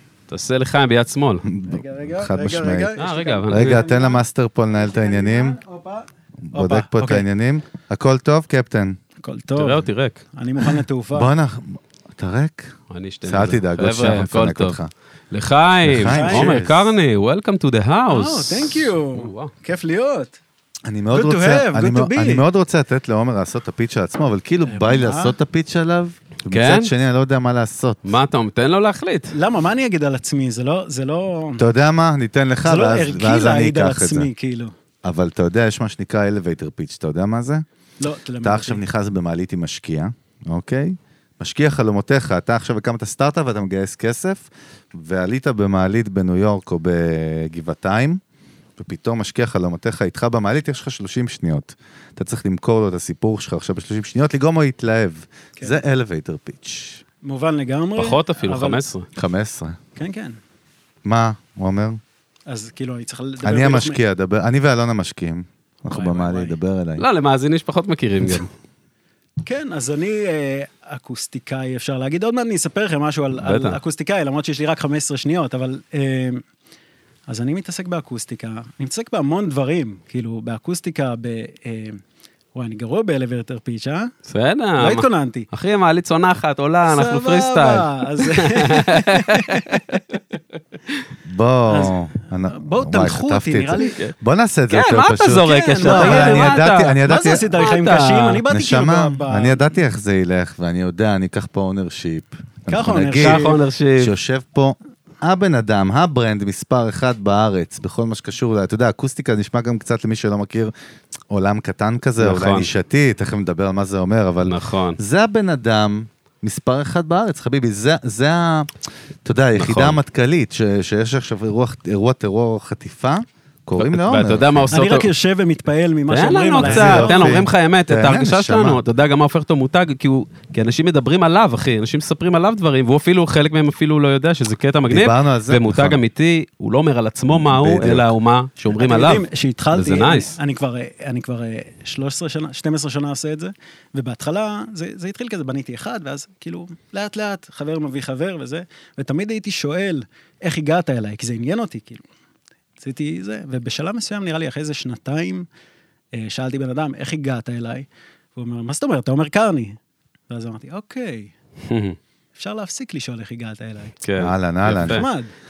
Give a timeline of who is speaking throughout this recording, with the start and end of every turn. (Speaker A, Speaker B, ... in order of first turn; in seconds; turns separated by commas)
Speaker A: 0.3-1.4, Speaker B: 1.4-2.9, Speaker C: 1.7-4.2, Speaker A: 3.0-3.8, Speaker B: 3.5-5.6, Speaker C: 4.8-7.3, Speaker B: 6.5-9.0, Speaker C: 9.2-11.3, Speaker A: 9.6-10.2, Speaker B: 11.1-14.9, Speaker A: 12.9-14.8, Speaker A: 15.3-19.5, Speaker B: 15.8-16.9, Speaker C: 16.1-16.6, Speaker C: 18.1-20.4, Speaker B: 20.9-28.1, Speaker C: 21.1-22.4, Speaker C: 24.6-25.4, Speaker A: 26.5-26.9, Speaker A: 28.1-29.3, Speaker C: 29.3-31.6, Speaker B: 31.6-34.3, Speaker C: 32.6-34.7, Speaker B: 35.0-37.6, Speaker C: 38.0-38.8, Speaker B: 38.4-48.2, Speaker B: 48.8-57.0, Speaker C: 57.2-58.8, Speaker A: 58.0-59.1, Speaker B: 59.2-59.8, Speaker C: 60.0-60.4, Speaker B: 61.0-62.0, Speaker C: 62.5-64.0, Speaker B: 63.4-67.0, Speaker C: 65.9-66.6, Speaker A: 67.0-68.5, Speaker C: 69.4-76.4, Speaker A: 73.4-73.8, Speaker C: 77.3-82.0, Speaker C: 82.5-84.1, Speaker A: 84.3-90.2, Speaker C: 84.8-85.5, Speaker C: 86.8-90.0, Speaker B: 91.3-97.5, Speaker C: 91.7-94.0, Speaker A: 93.8-94.1, Speaker A: 94.7-97.0, Speaker C: 95.4-99.7, Speaker A: 97.5-98.4, Speaker B: 98.5-110.7, Speaker C: 102.7-103.6, Speaker A: 103.2-104.1, Speaker B: 111.3-118.7, Speaker A: 112.2-112.7, Speaker A: 114.5-115.0, Speaker B: 119.2-124.7, Speaker A: 119.6-120.0, Speaker A: 123.8-125.1, Speaker C: 124.7-127.3, Speaker A: 126.1-140.4, Speaker B: 126.6-128.8, Speaker B: 134.9-136.0, Speaker B: 137.3-138.1, Speaker C: 138.8-152.0, Speaker C: 152.8-155.5, Speaker C: 156.2-159.8, Speaker C: 160.3-161.3, Speaker A: 161.7-162.0, Speaker C: 162.4-164.0, Speaker A: 164.0-165.1, Speaker B: 164.2-165.0, Speaker C: 164.8-165.3